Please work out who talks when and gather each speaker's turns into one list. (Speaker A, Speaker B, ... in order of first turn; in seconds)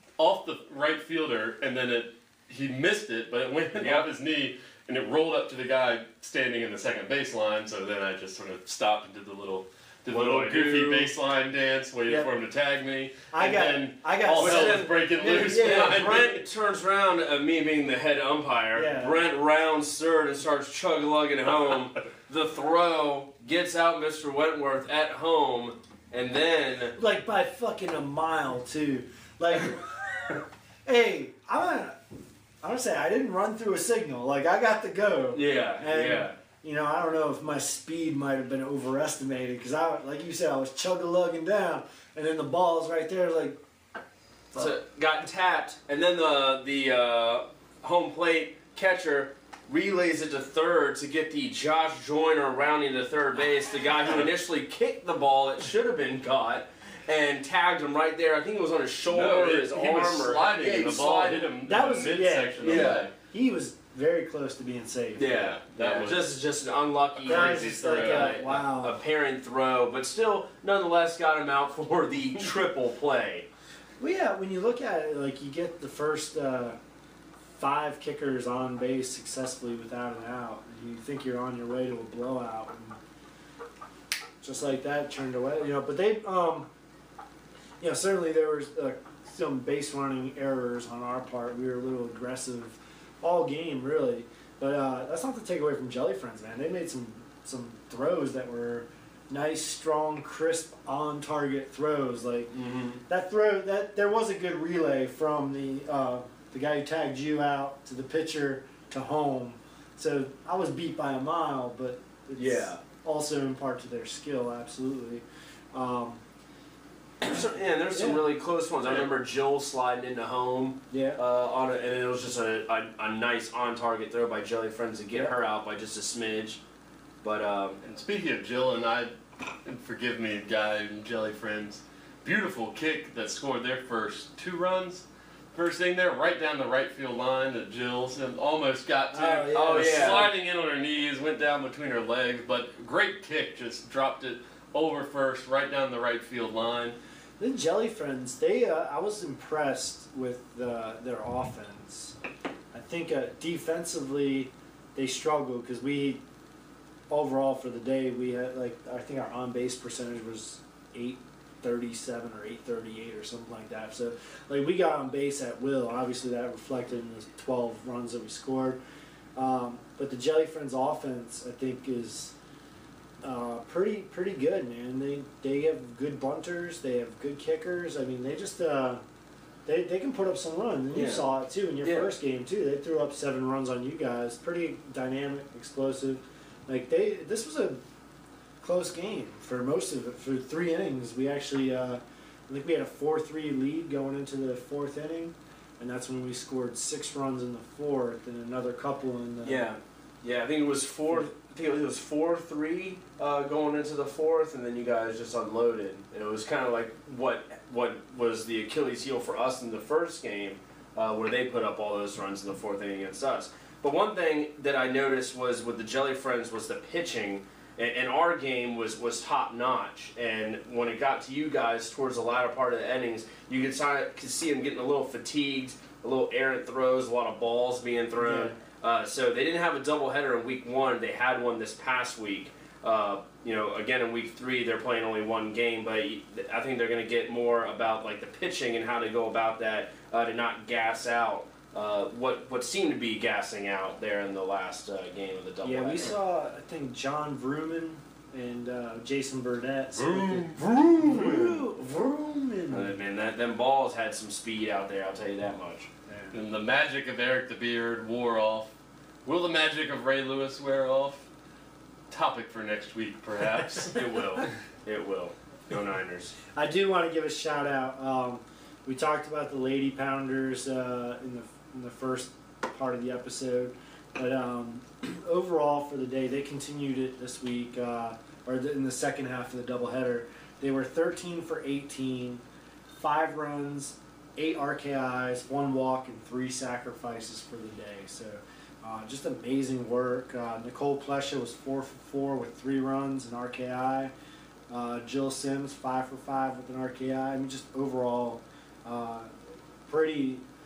Speaker A: 0.2-16.4, 59.1-63.1, 65.3-66.3, 67.2-68.6, 127.8-129.1, 129.7-147.0, 250.0-250.7, 256.3-258.7, 259.2-261.3, 262.1-264.0
Speaker B: 3.7-4.1, 10.1-11.2, 14.3-27.0, 35.3-36.4, 44.5-61.5, 62.6-63.1, 65.2-73.5, 102.5-103.0, 112.4-112.8, 117.2-126.6, 127.2-127.8, 139.5-140.3, 180.9-182.1, 199.4-246.2, 250.7-251.6, 252.7-255.9, 263.9-266.3
Speaker C: 13.3-14.9, 18.7-19.3, 27.0-32.0, 32.6-43.6, 61.6-65.3, 67.3-69.0, 74.0-76.8, 77.6-83.0, 84.4-86.7, 87.8-102.5, 103.1-116.2, 117.9-118.3, 120.9-121.2, 139.1-140.3, 147.4-152.2, 152.7-156.2, 157.1-168.8, 169.4-172.3, 173.2-179.0, 179.7-187.8, 188.6-199.7, 228.2-228.6, 245.6-253.0, 256.1-256.4, 266.5-294.1, 294.7-299.3, 299.9-300.4